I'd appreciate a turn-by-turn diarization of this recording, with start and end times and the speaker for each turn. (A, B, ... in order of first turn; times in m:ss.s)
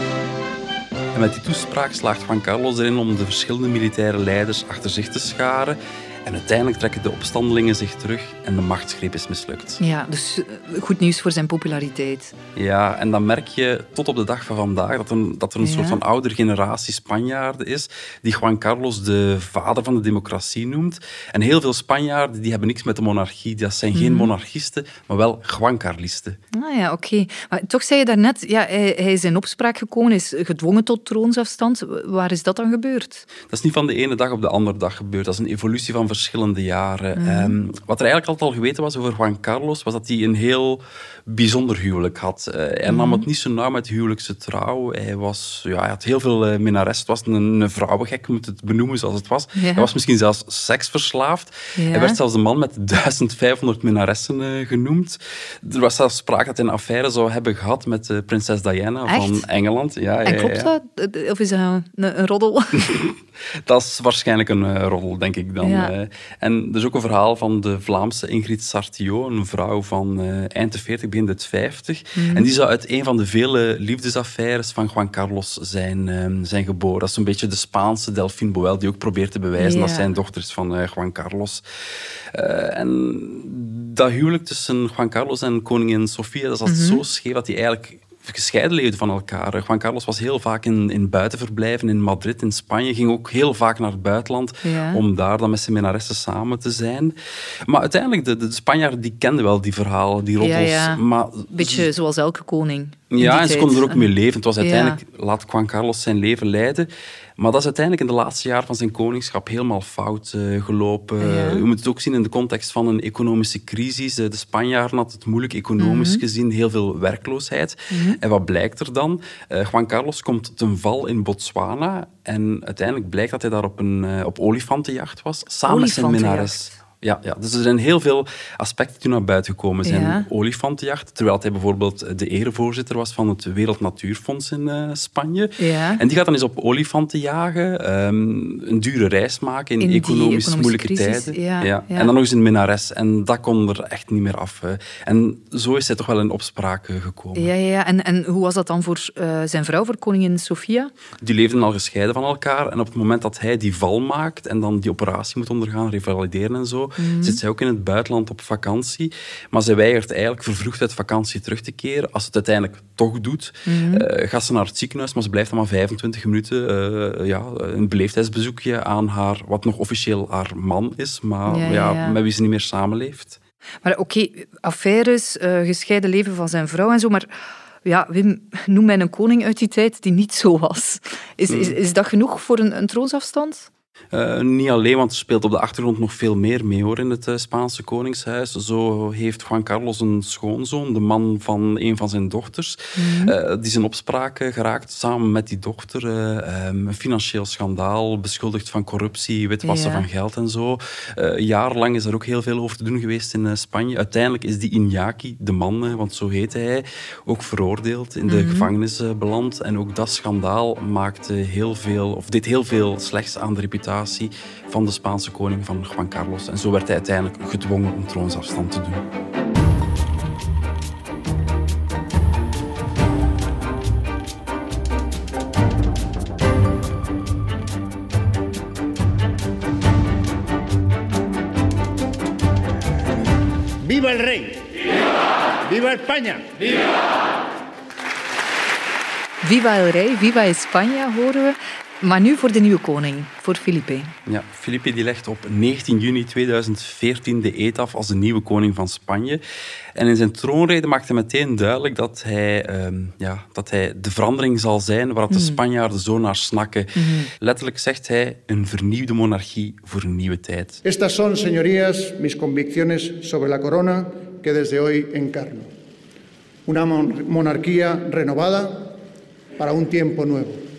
0:01.1-0:09.8 A
0:09.8-0:12.3 B
0:12.5-0:26.4 A
0:15.6-0:16.0 B
0:23.9-0:24.3 B
0:26.5-0:33.2 B
0:33.5-1:00.7 A
0:37.2-0:37.5 B
0:42.9-0:43.2 B
0:49.6-0:49.9 B
0:51.8-0:52.2 B
0:59.1-0:59.4 B
1:00.2-1:02.9 B
1:02.8-1:21.6 A
1:05.6-1:05.9 B
1:12.2-1:12.5 B
1:19.6-1:20.1 B
1:22.3-1:37.1 A
1:26.6-1:27.0 B
1:34.6-1:35.0 B
1:37.6-1:41.9 A
1:40.4-1:44.1 B
1:43.1-2:27.5 A
1:44.6-1:45.0 B
1:51.2-1:51.6 B
1:55.8-1:56.2 B
1:57.9-1:58.2 B
2:05.7-2:06.7 B
2:09.8-2:10.3 B
2:15.6-2:16.0 B
2:19.8-2:22.1 B
2:27.3-2:30.9 B
2:31.2-2:53.4 A
2:37.0-2:37.4 B
2:43.6-2:44.0 B
2:51.5-2:52.2 B
2:53.8-2:57.3 B
2:57.8-3:03.7 B
3:01.5-3:01.8 A
3:04.1-3:39.0 A
3:13.0-3:13.3 B
3:19.6-3:20.0 B
3:28.3-3:28.7 B
3:53.8-3:54.7 C
3:55.6-3:56.8 C
3:59.4-4:04.1 B
4:04.3-4:09.4 A
4:09.9-4:20.8 A
4:15.3-4:15.6 B
4:17.0-4:17.3 B
4:20.8-4:25.7 D
4:26.6-4:28.9 D
4:29.6-4:30.6 D